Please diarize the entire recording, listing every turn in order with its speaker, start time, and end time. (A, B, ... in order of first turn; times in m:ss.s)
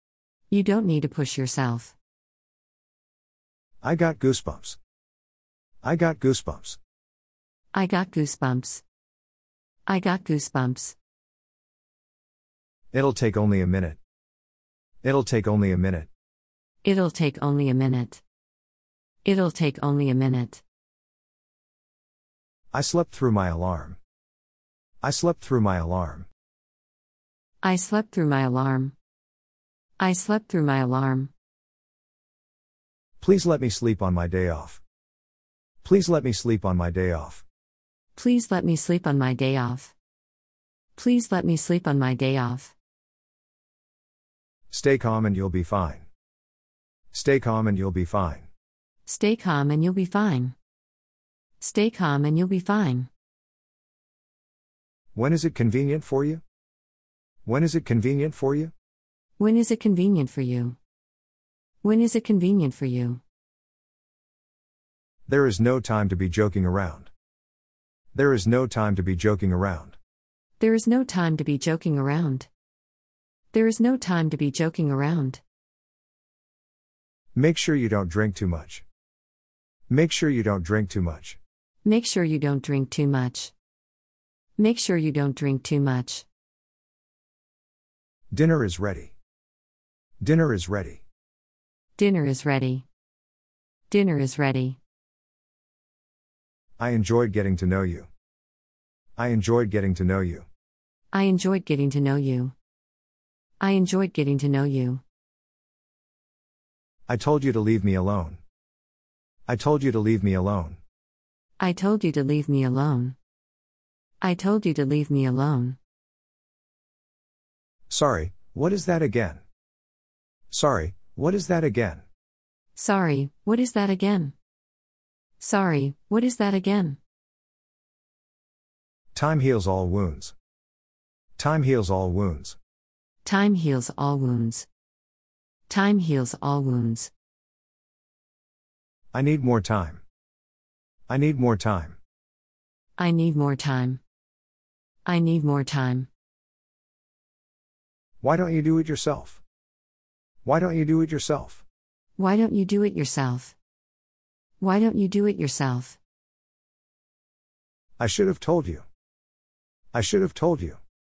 0:00.5-0:01.9 A
0:03.8-0:04.8 B
0:05.8-0:06.8 B
0:07.7-0:08.8 A
0:09.8-0:11.0 A
0:12.9-0:14.0 B
0:15.0-0:16.1 B
0:16.8-0:18.2 A
0:19.2-0:20.6 A
0:22.7-0:24.0 B
0:25.0-0:26.3 B
0:27.6-0:28.9 A
0:30.0-0:31.3 A
0:33.2-0:34.8 B
0:35.8-0:37.4 B
0:38.2-0:39.9 A
0:41.0-0:42.7 A
0:44.7-0:46.0 B
0:47.1-0:48.5 B
0:49.0-0:50.5 A
0:51.6-0:53.1 A
0:55.1-0:56.4 B
0:57.4-0:58.7 B
0:59.4-1:00.8 A
1:01.8-1:03.2 A
1:05.3-1:07.1 B
1:08.1-1:10.0 B
1:10.6-1:12.5 A
1:13.5-1:15.4 A
1:17.3-1:18.8 B
1:19.9-1:21.4 B
1:21.8-1:23.5 A
1:24.6-1:26.2 A
1:28.3-1:29.1 B
1:30.2-1:31.0 B
1:32.0-1:32.8 A
1:33.9-1:34.8 A
1:36.8-1:38.1 B
1:39.2-1:40.5 B
1:41.1-1:42.5 A
1:43.6-1:45.0 A
1:47.1-1:48.4 B
1:49.5-1:50.8 B
1:51.6-1:53.2 A
1:54.2-1:55.8 A
1:57.9-1:59.4 B
2:00.5-2:02.0 B
2:02.7-2:04.3 A
2:05.4-2:07.0 A
2:09.1-2:10.3 B
2:11.4-2:12.6 B
2:13.2-2:14.7 A
2:15.7-2:17.1 A
2:19.1-2:20.0 B
2:21.1-2:22.0 B
2:23.0-2:24.0 A
2:25.0-2:26.1 A
2:28.2-2:29.4 B
2:30.4-2:31.6 B
2:32.2-2:33.6 A
2:34.6-2:36.0 A
2:38.0-2:38.8 B
2:39.9-2:40.8 B